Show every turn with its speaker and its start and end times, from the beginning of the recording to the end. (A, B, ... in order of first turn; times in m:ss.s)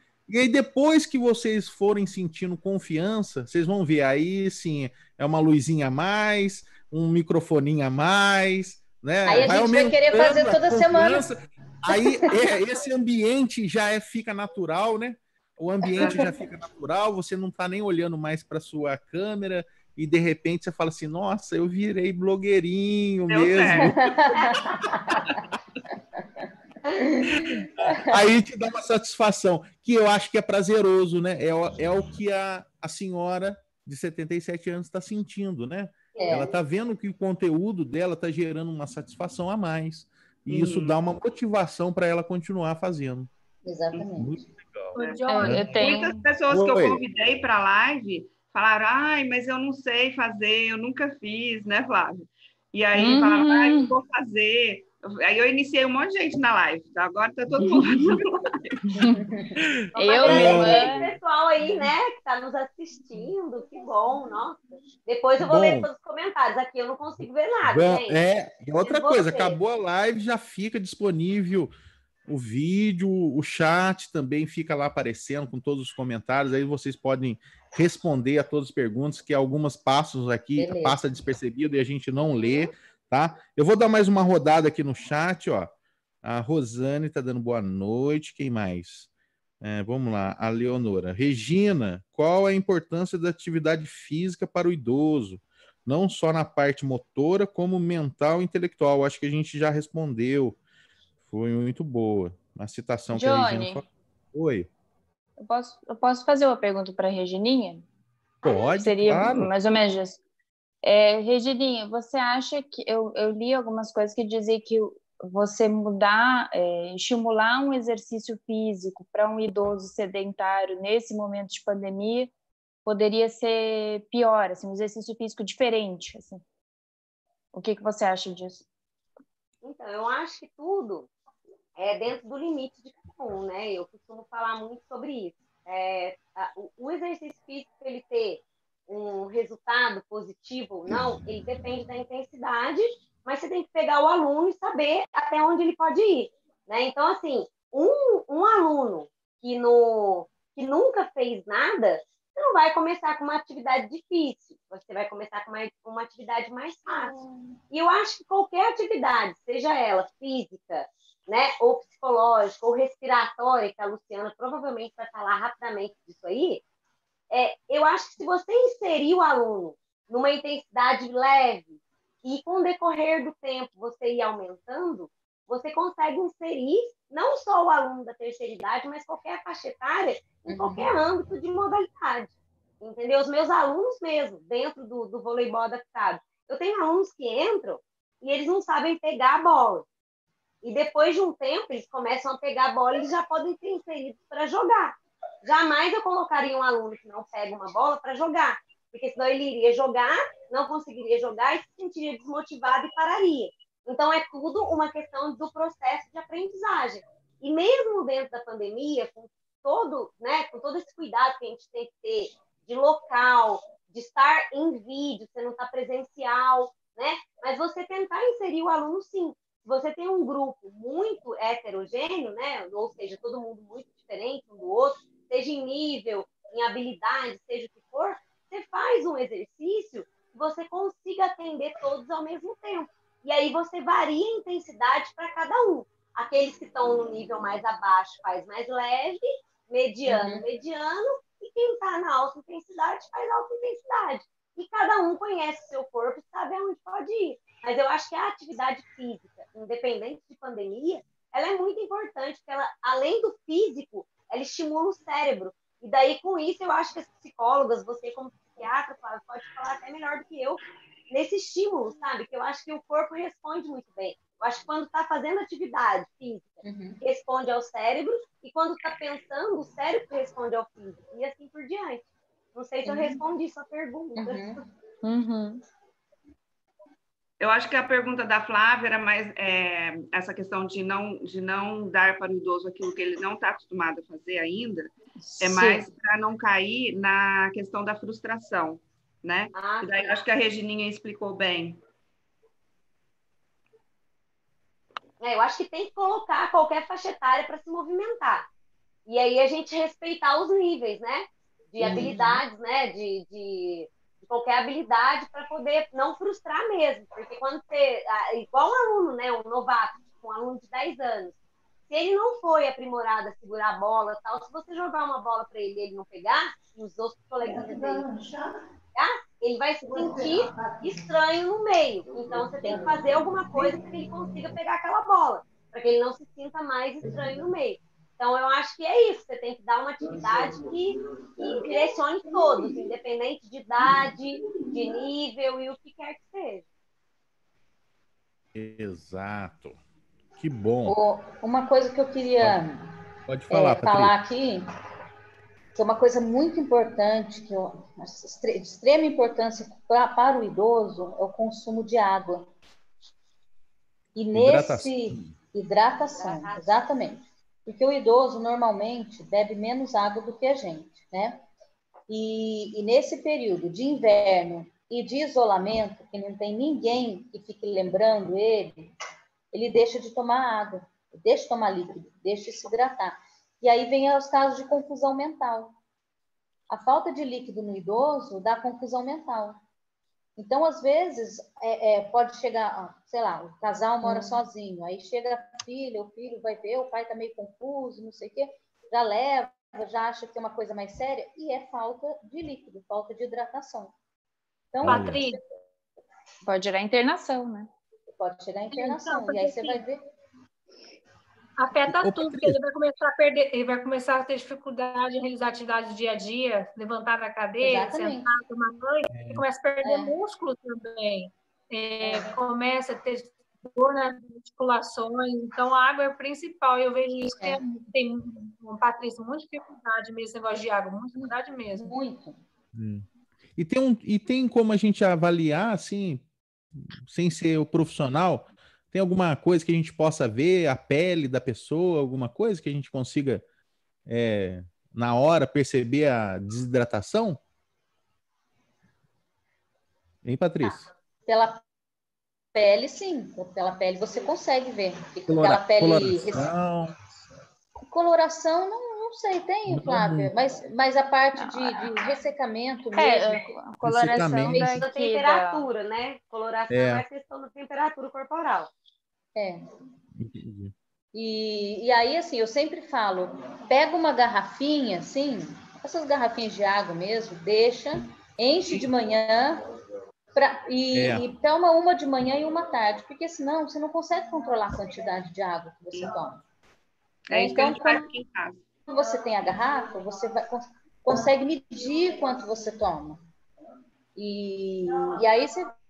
0:00.3-0:24.4 A
0:09.3-0:11.3 B
0:11.9-0:12.3 B
0:15.8-0:16.1 B
0:16.0-0:16.3 C
0:23.3-0:23.9 C
0:23.8-0:25.3 B
0:24.4-0:24.8 D
0:27.0-0:28.0 B
0:27.4-0:43.3 A
0:36.1-0:36.5 D
0:36.2-0:36.5 B
0:40.5-0:41.0 C
0:43.6-0:44.4 B
0:43.9-0:47.0 A
0:45.0-0:45.7 E
0:45.0-0:58.5 C
0:45.3-0:46.2 F
0:53.0-0:54.0 F
0:57.7-0:58.0 F
0:59.1-1:01.0 B
0:59.9-1:08.2 D
1:00.0-1:01.0 F
1:00.3-1:01.1 A
1:05.4-1:05.9 A
1:07.6-1:11.7 A
1:08.8-1:09.6 D
1:12.3-1:25.7 A
1:20.6-1:21.0 B
1:26.2-1:29.1 A
1:29.6-1:40.6 A
1:41.2-1:44.7 A
1:43.1-1:43.8 F
1:45.4-1:47.9 F
1:48.4-1:50.2 F
1:48.4-1:49.5 A
1:50.8-2:02.3 F
2:02.8-2:06.4 F
2:07.5-2:08.7 F
2:09.6-2:11.1 D
2:11.8-2:37.1 D
2:36.9-2:37.5 B
2:37.7-2:46.6 D
2:47.3-3:09.9 D
3:00.5-3:00.9 B
3:10.6-4:34.5 D
4:00.1-4:00.4 B
4:26.6-4:27.0 B
4:32.8-4:33.2 B
4:34.2-4:34.6 B
4:35.0-4:35.6 F
4:37.4-4:51.8 C
4:45.2-4:45.9 F
4:49.5-4:50.2 D
4:55.2-4:58.5 D
4:59.1-5:11.4 D
5:01.8-5:02.4 B
5:11.9-5:18.0 D
5:17.4-5:18.3 B
5:19.0-5:36.6 D
5:20.0-5:20.8 B
5:22.6-5:23.0 B
5:23.5-5:23.8 B
5:31.4-5:31.9 B
5:32.4-5:32.7 B
5:38.6-5:39.8 A
5:40.4-5:41.0 A
5:40.9-5:42.9 B
5:43.3-5:44.1 A
5:43.5-5:44.6 B
5:45.8-5:52.5 B
5:54.2-6:01.4 B
5:54.3-5:55.3 A
5:56.2-5:56.7 D
6:02.1-6:08.9 B
6:09.5-6:15.8 B
6:16.7-6:19.6 B
6:20.4-6:33.9 B
6:24.0-6:24.4 F
6:34.7-6:35.4 B
6:34.8-6:35.2 A
6:34.8-6:35.4 E
6:36.4-6:37.7 F
6:38.1-6:40.0 B
6:38.7-6:39.8 E
6:41.6-7:02.0 E
6:41.9-6:42.6 A
6:47.6-6:48.4 B
6:49.1-6:49.4 A
6:49.8-6:50.1 B
6:52.0-6:52.3 B
7:01.2-7:02.4 B
7:02.7-7:03.1 A
7:03.6-7:06.2 A
7:06.8-7:13.4 A
7:14.1-7:17.4 A
7:20.2-7:20.8 A
7:21.3-7:21.6 B
7:22.5-7:26.5 B
7:25.3-7:26.9 A
7:27.9-7:33.5 B
7:29.7-7:30.3 A
7:31.4-7:31.9 F
7:33.0-7:35.7 F
7:33.8-7:34.6 A
7:34.4-7:34.8 B
7:34.8-7:38.7 D
7:36.7-7:37.0 A
7:40.2-7:40.7 A
7:41.1-7:49.6 B
7:50.4-7:56.4 B
7:50.9-7:51.2 A
7:57.3-7:58.1 B
7:57.3-7:58.6 C
7:58.9-8:03.2 B
8:04.2-8:05.7 B